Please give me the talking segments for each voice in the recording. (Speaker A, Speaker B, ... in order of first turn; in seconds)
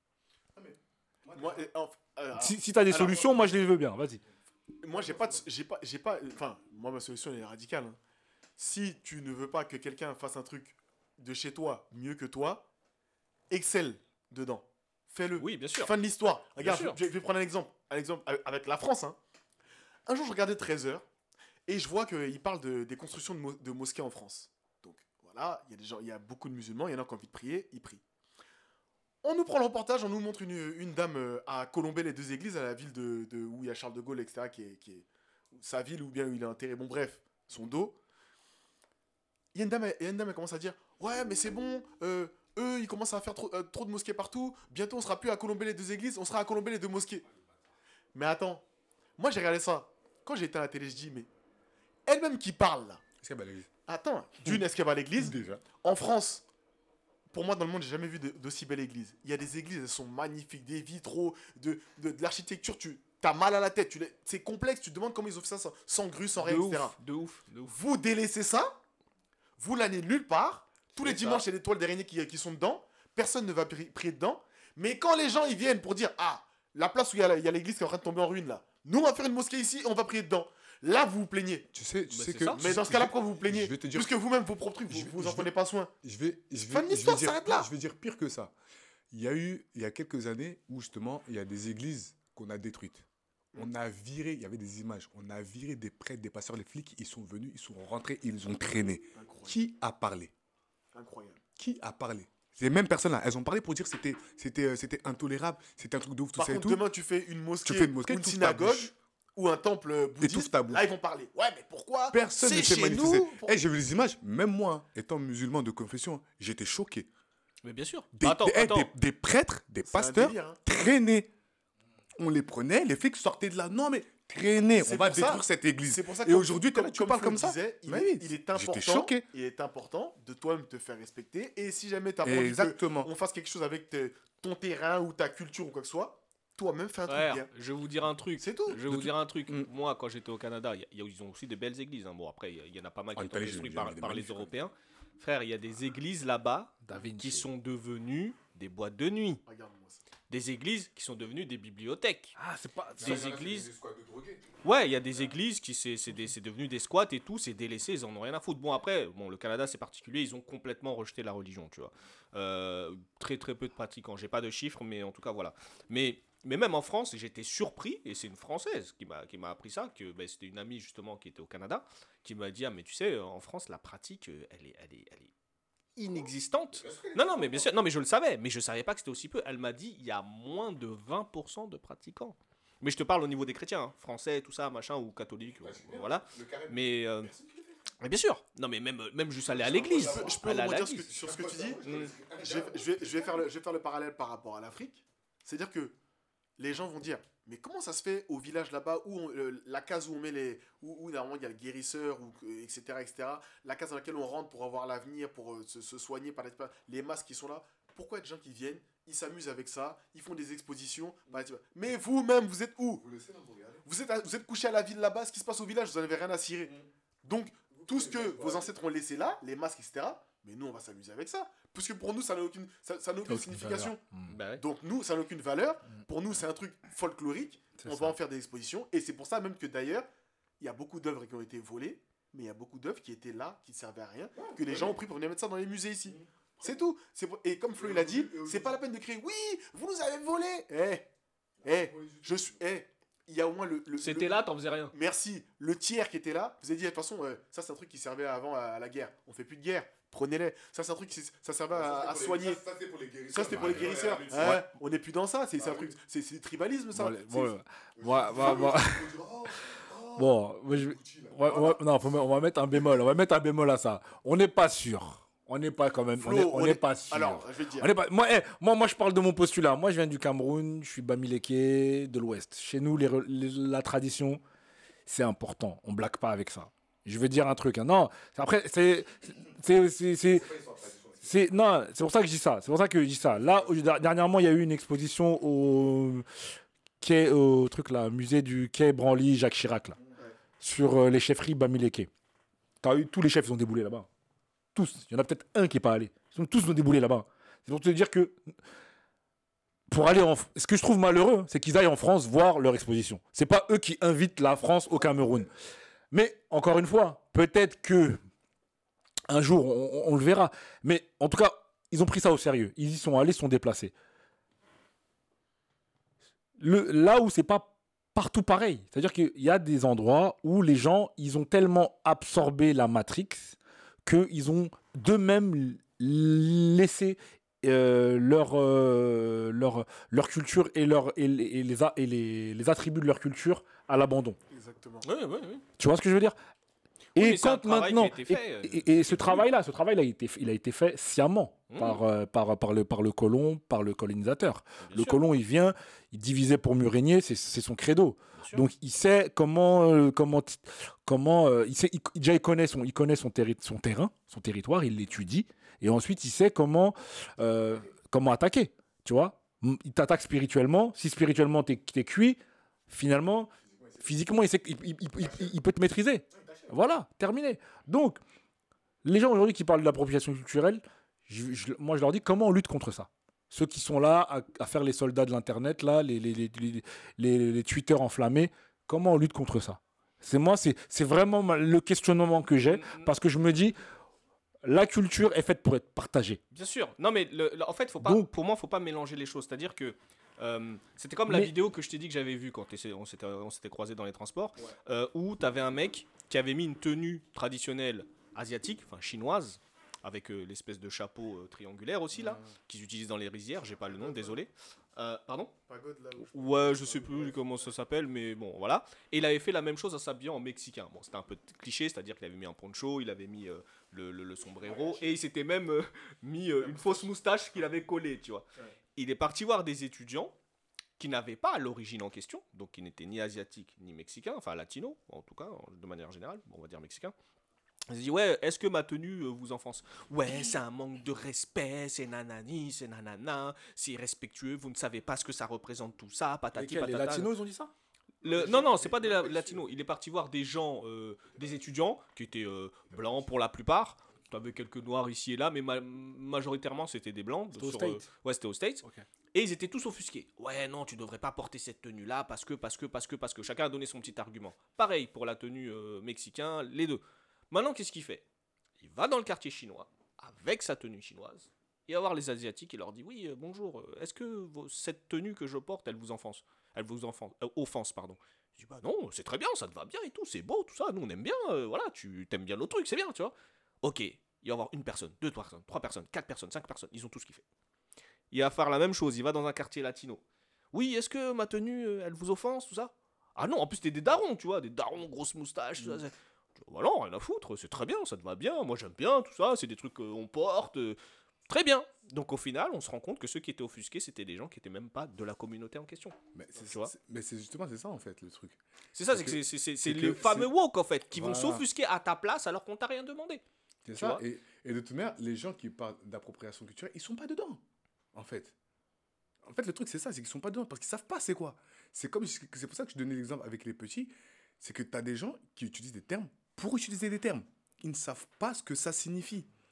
Speaker A: 0.6-1.7, 3.0-3.4, 5.1-5.3, 53.2-53.7, 55.2-55.6, 81.7-84.1, 84.9-85.5, 86.0-88.5, 89.1-100.3, 101.6-106.8, 107.6-108.9, 110.2-110.9, 112.1-117.1, 118.1-121.3, 122.2-129.2, 132.2-133.1, 138.7-139.7, 143.2-144.5, 153.0-154.5, 176.7-177.7, 185.6-187.8, 189.5-190.6, 191.1-193.4, 213.0-213.8, 217.8-218.7, 234.6-234.9, 236.1-236.7, 237.8-238.8, 241.6-242.6, 251.7-254.7, 255.6-255.9, 258.0-261.8, 280.3-281.5, 363.6-364.1, 366.3-366.7, 402.1-402.5, 496.3-498.6, 499.1-500.5, 501.2-501.6, 503.9-507.6, 508.1-508.5, 509.4-519.5
Speaker B: 1.4-3.3, 4.8-8.0, 8.6-12.7, 13.5-19.2, 20.1-21.0, 21.7-28.0, 29.2-38.0, 39.5-47.2, 48.1-48.6, 49.2-51.3, 52.1-53.0, 53.9-56.5, 57.3-67.0, 67.7-68.8, 69.6-81.7, 82.5-85.9, 86.7-87.7, 99.2-99.6, 100.9-101.4, 106.4-113.6, 119.8-120.6, 124.8-137.5, 138.4-138.8, 149.5-150.0, 189.9-191.8, 192.3-196.0, 196.6-213.0, 213.8-224.0, 224.6-230.1, 230.6-241.1, 241.6-244.4, 244.9-252.6, 253.3-257.5, 266.2-267.9, 334.5-335.1, 403.9-404.4, 405.7-407.4, 414.6-415.1, 416.6-417.1, 438.2-439.6
Speaker C: 2.4-4.2, 146.8-147.5, 152.4-153.2, 223.3-224.4, 227.8-228.2, 256.9-259.1, 260.2-274.4, 275.1-280.5, 281.2-286.5, 287.0-290.0, 290.6-292.1, 292.8-294.1, 294.8-298.5, 299.9-305.5, 306.1-308.2, 309.3-313.9, 316.6-334.4, 335.8-336.4, 337.2-368.2, 369.0-383.8, 384.6-386.4, 388.0-388.3, 436.6-437.7, 447.5-448.1
Speaker D: 15.4-15.9, 16.6-17.0, 66.4-67.8, 71.0-71.4, 82.1-82.8, 117.6-118.9, 137.1-149.4, 150.3-152.4, 153.0-153.7, 154.6-175.3, 176.0-187.3, 188.0-191.1, 191.8-192.1, 224.3-224.6, 244.0-244.9, 335.0-335.6, 337.2-339.5, 341.7-342.0, 344.9-345.2, 382.7-383.1, 386.5-405.5, 406.3-418.4, 419.0-420.3, 421.0-427.1, 427.9-437.3, 438.2-458.2, 458.8-477.4, 478.3-496.9, 498.9-504.2